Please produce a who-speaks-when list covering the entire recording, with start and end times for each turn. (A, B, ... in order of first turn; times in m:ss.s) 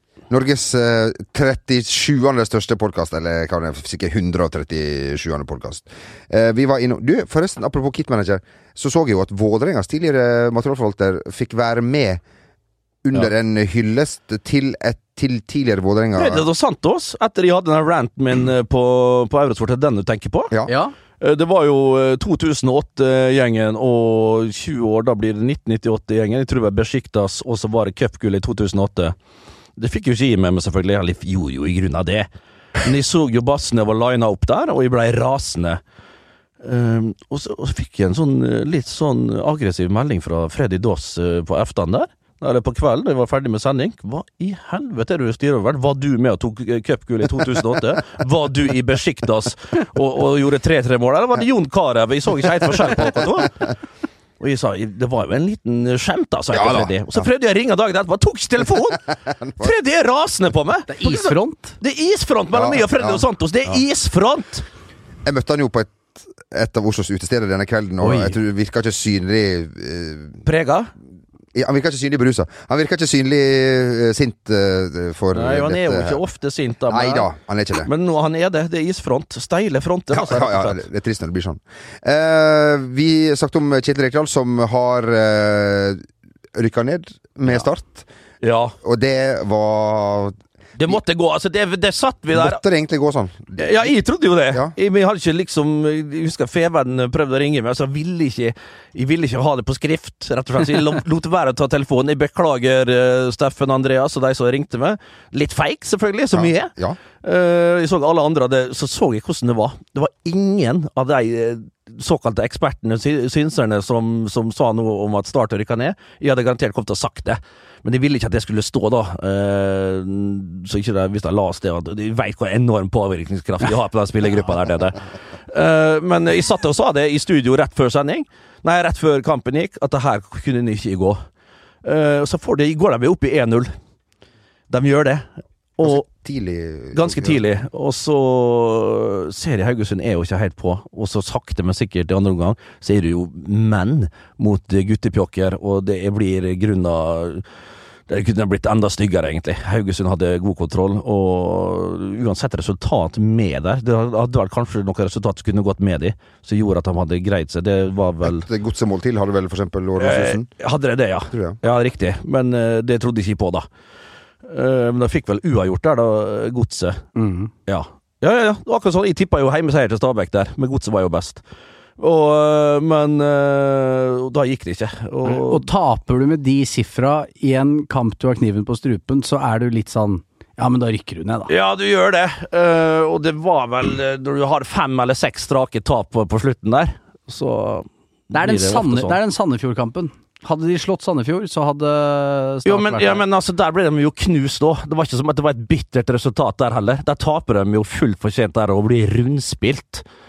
0:00.3-0:12.2 A
0:13.0-0:16.4 A
0:16.2-0:20.5 B
0:20.7-0:20.9 C
0:21.2-0:29.1 B
0:29.8-0:32.3 B
0:32.8-0:35.8 B
0:36.6-0:53.5 B
0:54.4-1:04.6 B
0:56.5-0:57.3 A
0:59.3-0:59.7 A
1:00.9-1:01.8 C
1:02.5-1:03.8 A
1:05.2-1:10.4 A
1:08.0-1:08.3 C
1:10.4-1:10.9 B
1:11.5-1:16.2 A
1:15.3-1:20.8 B
1:16.9-1:17.9 A
1:20.1-1:28.1 A
1:28.4-1:28.7 B
1:28.8-1:30.4 A
1:30.8-1:32.6 B
1:32.3-1:33.9 A
1:33.6-1:46.7 B
1:46.3-1:47.0 A
1:47.2-2:11.2 B
2:11.8-2:13.7 B
2:14.7-2:16.0 B
2:15.8-2:17.4 A
2:16.9-2:27.4 B
2:28.1-2:38.4 B
2:38.2-2:40.5 A
2:40.0-2:43.6 B
2:41.3-2:41.6 A
2:44.4-2:47.0 B
2:47.2-2:47.5 C
2:47.7-2:51.4 B
2:52.0-2:55.6 B
2:55.2-3:01.5 C
3:01.5-3:09.2 B
3:08.3-3:13.2 C
3:12.6-3:20.0 B